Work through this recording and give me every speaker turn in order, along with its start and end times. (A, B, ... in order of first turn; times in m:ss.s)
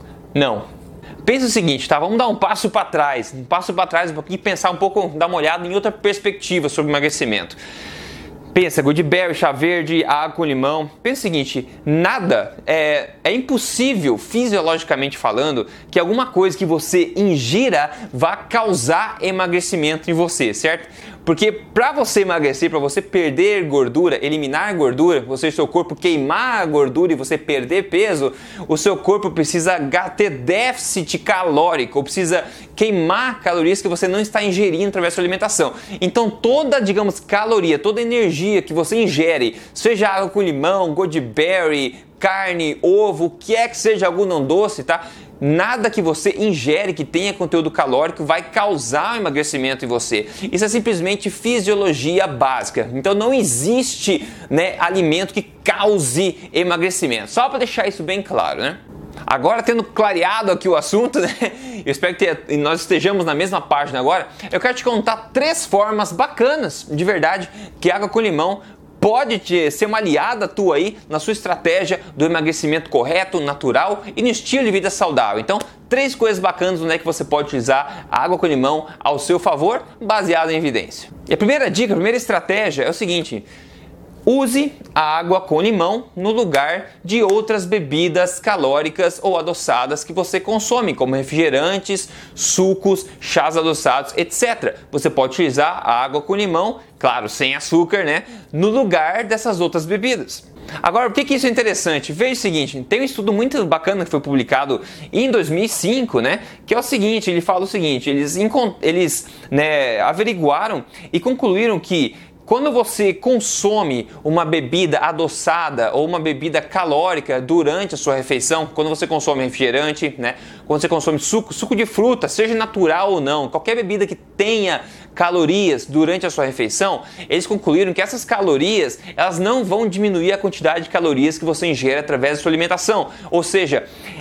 0:00.3-0:00.7 A
0:01.2-0:07.6 A
0:08.5-1:23.5 A
1:24.3-2:13.9 A